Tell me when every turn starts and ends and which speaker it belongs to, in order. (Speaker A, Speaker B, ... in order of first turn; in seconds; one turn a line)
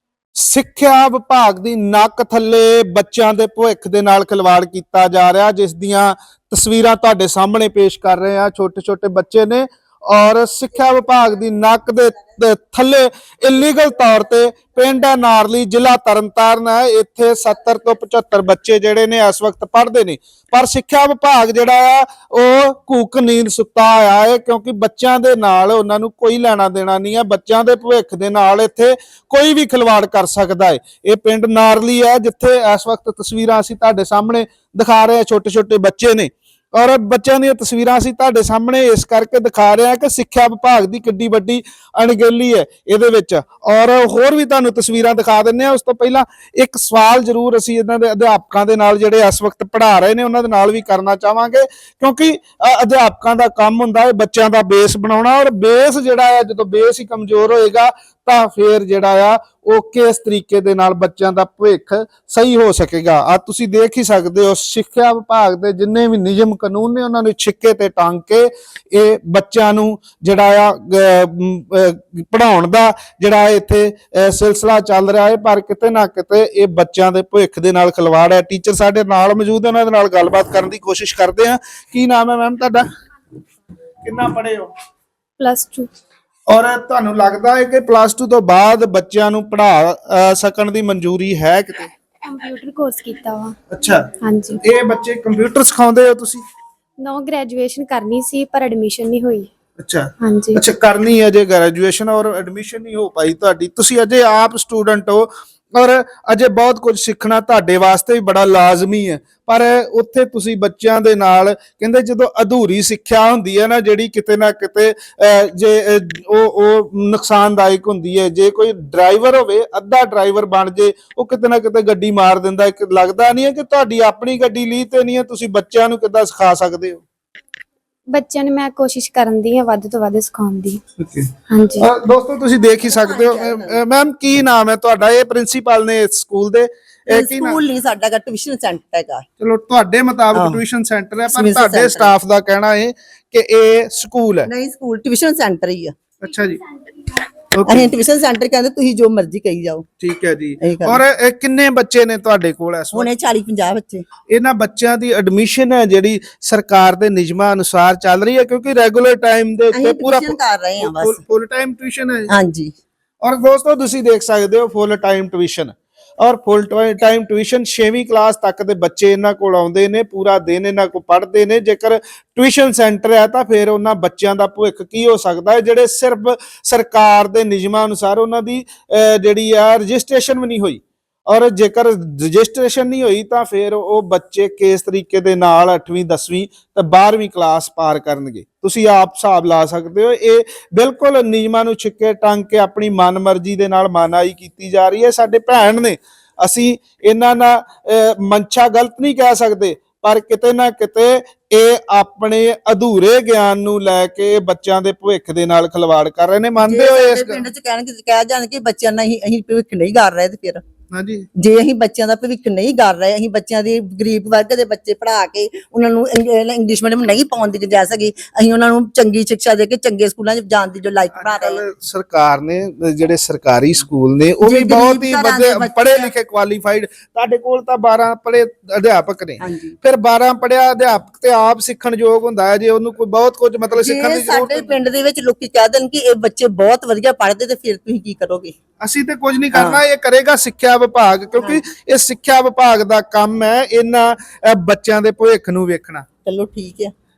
Speaker A: 0.4-82.9
Speaker A: 84.0-84.7
Speaker B: 85.4-85.9
Speaker A: 86.5-91.9
Speaker B: 92.2-93.5
Speaker A: 93.7-94.0
Speaker B: 94.2-94.6
Speaker A: 94.6-96.4
Speaker B: 97.0-99.5
Speaker A: 99.8-127.0
Speaker B: 100.2-100.6
Speaker B: 128.1-130.8
Speaker A: 131.0-137.6
Speaker B: 131.5-131.9
Speaker C: 132.8-133.8
Speaker C: 137.1-139.2
Speaker A: 139.4-144.5
Speaker C: 140.3-140.6
Speaker C: 141.3-142.1
Speaker C: 144.5-145.9
Speaker A: 146.2-146.6
Speaker A: 147.5-147.9
Speaker C: 147.7-149.9
Speaker A: 150.0-153.2
Speaker C: 150.6-151.0
Speaker C: 152.9-154.1
Speaker A: 154.3-162.3
Speaker C: 159.7-161.2
Speaker C: 162.3-162.8
Speaker A: 163.2-207.4
Speaker C: 206.6-210.6
Speaker A: 210.9-211.3
Speaker C: 211.4-221.6
Speaker A: 221.1-234.8
Speaker C: 224.4-226.1
Speaker C: 229.4-229.8
Speaker C: 233.8-238.6
Speaker A: 238.8-246.1
Speaker C: 239.5-239.8
Speaker C: 246.2-246.9